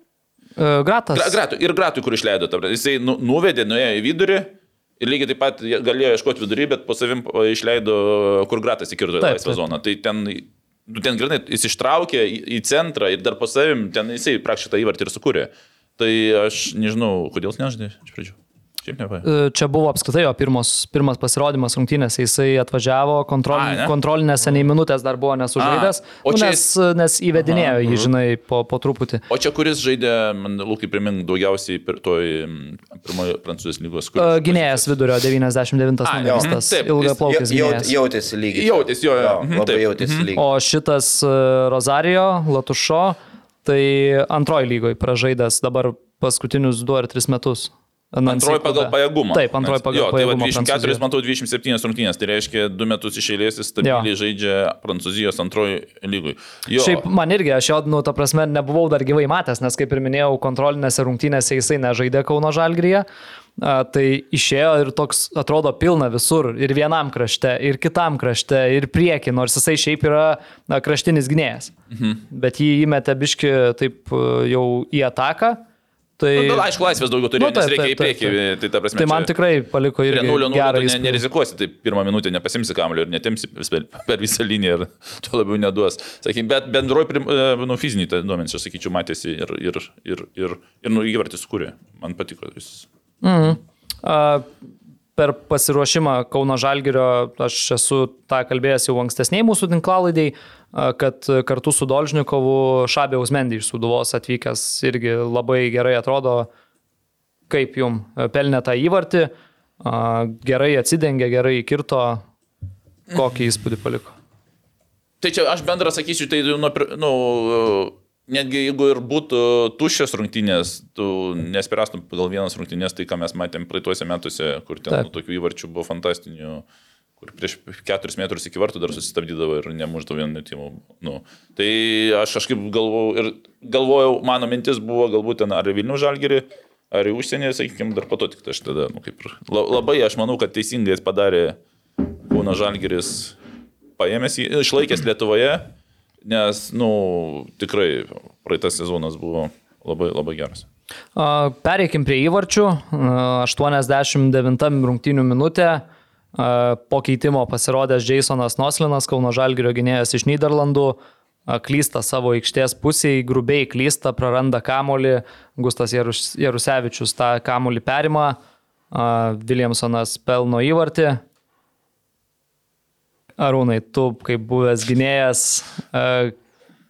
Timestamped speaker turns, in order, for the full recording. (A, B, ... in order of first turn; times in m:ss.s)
0:00.6-0:01.4 A
0:01.1-0:19.2 B
0:09.2-0:09.6 A
0:19.2-0:29.2 A
0:23.5-0:23.9 B
0:25.6-0:26.7 B
0:27.4-0:28.1 B
0:29.3-0:34.9 B
0:34.2-0:37.9 A
0:36.0-0:37.2 B
0:36.2-0:36.6 C
0:37.1-0:40.4 C
0:38.5-0:40.3 B
0:40.4-0:51.0 A
0:48.2-0:57.0 B
0:53.8-0:54.1 A
0:56.7-1:03.0 A
1:03.6-1:11.7 A
1:11.9-1:12.2 B
1:12.3-1:15.6 A
1:16.2-1:16.6 A
1:16.3-1:19.3 B
1:17.4-1:18.4 A
1:19.0-1:21.2 A
1:20.1-1:32.8 B
1:33.2-1:34.5 A
1:35.2-1:46.5 A
1:47.5-1:52.2 A
1:53.1-1:54.1 A
1:55.2-2:06.6 B
2:07.2-2:21.6 B
2:22.3-2:23.4 B
2:24.0-2:25.7 B
2:26.2-2:30.6 B
2:31.2-2:35.8 A
2:36.3-2:48.4 A
2:48.9-2:51.2 A
2:53.4-2:56.3 A